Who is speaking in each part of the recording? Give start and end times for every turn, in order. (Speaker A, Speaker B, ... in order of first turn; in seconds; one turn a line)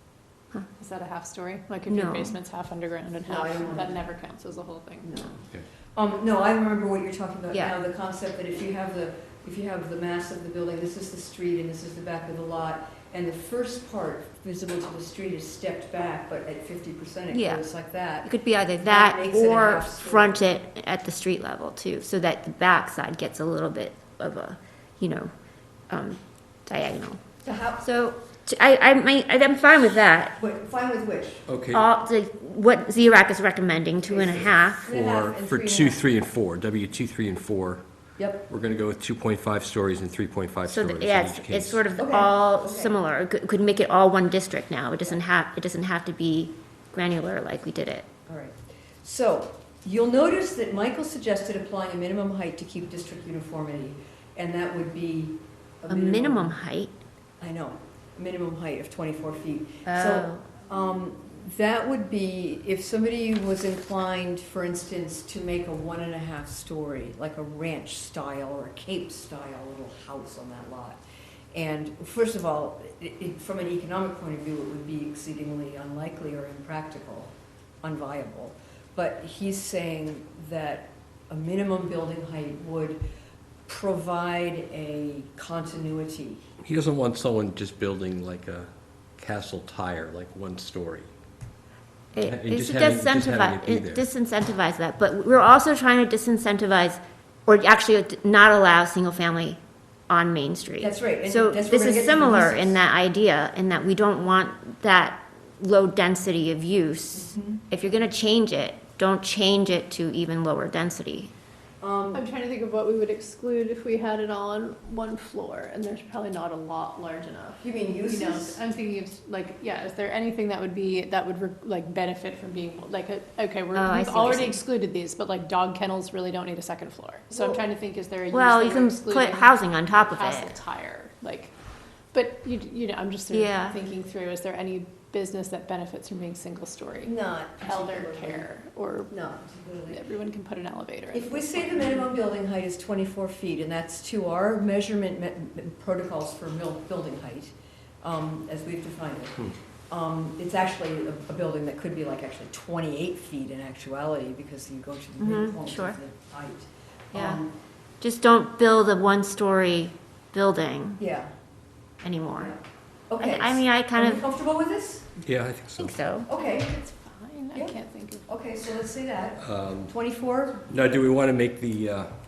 Speaker A: 0.8-5.3
Speaker B: 1.9-2.4
Speaker C: 3.2-4.0
Speaker C: 5.0-5.4
Speaker C: 6.0-18.3
Speaker B: 17.3-17.6
Speaker B: 18.2-25.3
Speaker C: 18.8-20.4
Speaker B: 25.9-27.2
Speaker C: 27.4-27.8
Speaker B: 27.8-30.4
Speaker C: 30.4-31.4
Speaker D: 31.5-31.9
Speaker B: 31.7-34.9
Speaker C: 34.0-36.0
Speaker D: 34.8-37.8
Speaker C: 38.2-38.5
Speaker D: 38.5-41.8
Speaker B: 40.7-48.1
Speaker C: 42.0-43.0
Speaker C: 48.3-56.6
Speaker B: 55.9-57.0
Speaker C: 57.4-71.0
Speaker B: 59.9-60.5
Speaker C: 71.5-77.3
Speaker C: 77.8-83.0
Speaker C: 83.7-86.4
Speaker D: 86.6-91.1
Speaker B: 92.1-111.3
Speaker D: 92.2-94.0
Speaker C: 100.8-102.8
Speaker C: 107.1-107.6
Speaker C: 111.8-112.2
Speaker A: 112.1-131.5
Speaker C: 117.6-118.6
Speaker B: 123.7-124.6
Speaker C: 127.3-127.6
Speaker B: 128.3-130.5
Speaker A: 132.1-139.2
Speaker B: 133.3-133.8
Speaker C: 137.0-138.5
Speaker C: 139.1-140.0
Speaker A: 139.9-142.1
Speaker C: 141.1-157.5
Speaker B: 155.2-156.0
Speaker B: 157.1-157.4
Speaker B: 158.0-161.0
Speaker C: 161.0-161.3
Speaker B: 162.0-162.5
Speaker C: 163.1-165.1
Speaker B: 163.2-164.2
Speaker D: 165.2-165.9
Speaker B: 165.8-166.3
Speaker C: 166.3-166.7
Speaker A: 166.4-168.3
Speaker C: 167.5-170.6
Speaker D: 169.4-169.9
Speaker D: 170.7-172.1